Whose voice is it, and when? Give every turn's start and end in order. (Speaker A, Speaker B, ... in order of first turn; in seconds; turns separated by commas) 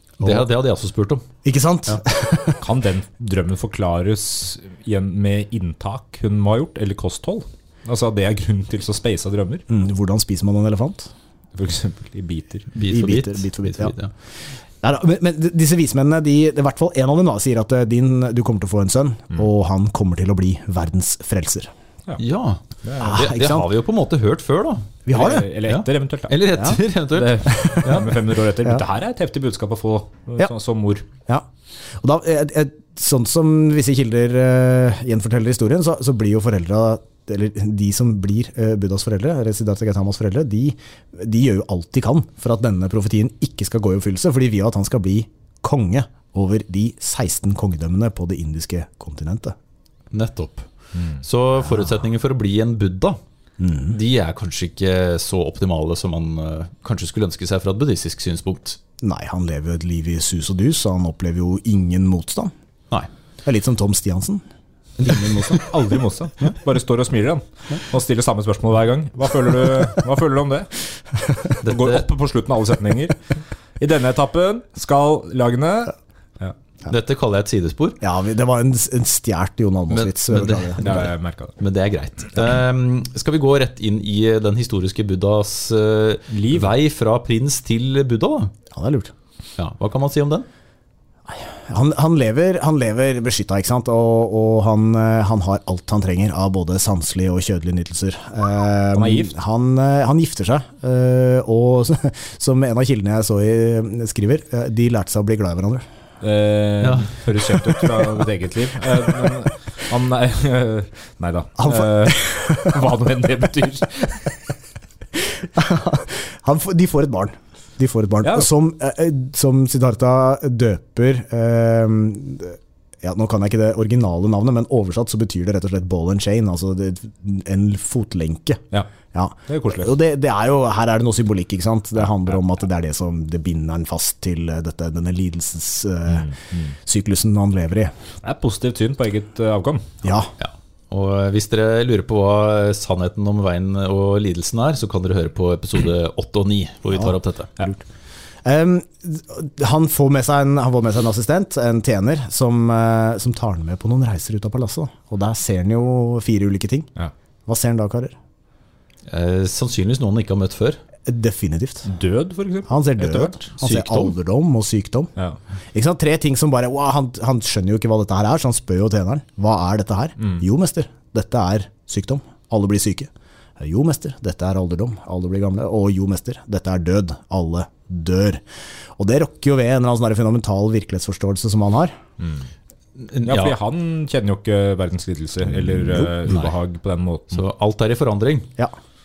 Speaker A: 0.2-0.5, Speaker B: 0.2-1.2, Speaker A: 1.4-2.6, Speaker C: 2.6-9.7, Speaker A: 9.7-11.1, Speaker C: 11.6-12.7, Speaker B: 12.7-14.1, Speaker A: 12.8-13.9, Speaker A: 14.7-21.7, Speaker B: 22.2-28.1, Speaker C: 22.8-23.2, Speaker A: 23.0-23.7, Speaker A: 25.1-25.5, Speaker C: 25.1-26.6, Speaker A: 26.5-26.8, Speaker C: 27.1-31.1, Speaker A: 27.4-28.1, Speaker A: 31.3-49.6, Speaker B: 50.1-53.2, Speaker C: 51.0-51.2, Speaker A: 53.6-54.0, Speaker B: 53.9-58.8, Speaker A: 59.0-62.5, Speaker A: 63.4-64.4, Speaker A: 65.0-65.6, Speaker C: 65.1-70.8, Speaker C: 71.5-76.6, Speaker B: 71.6-72.1, Speaker B: 76.9-78.0, Speaker A: 78.0-81.1, Speaker B: 79.9-88.5, Speaker C: 80.8-81.6, Speaker C: 86.3-86.7, Speaker A: 88.7-89.1, Speaker B: 89.6-90.5, Speaker A: 91.3-105.8, Speaker C: 98.9-99.3, Speaker C: 106.2-114.4, Speaker B: 106.8-107.8, Speaker A: 111.6-112.7, Speaker A: 115.4-137.9, Speaker C: 118.2-118.5, Speaker C: 129.5-130.0, Speaker C: 136.1-136.7, Speaker C: 138.2-140.0, Speaker A: 140.0-140.3, Speaker B: 140.4-147.5, Speaker A: 148.4-156.9, Speaker A: 157.5-158.1, Speaker B: 159.1-160.8, Speaker A: 161.1-161.9, Speaker C: 161.8-163.5, Speaker A: 162.7-165.1, Speaker B: 163.6-164.1, Speaker A: 165.7-178.4, Speaker A: 179.0-182.0, Speaker C: 182.2-182.5, Speaker B: 183.0-183.6, Speaker C: 183.2-187.4, Speaker B: 186.3-186.6, Speaker B: 187.3-188.5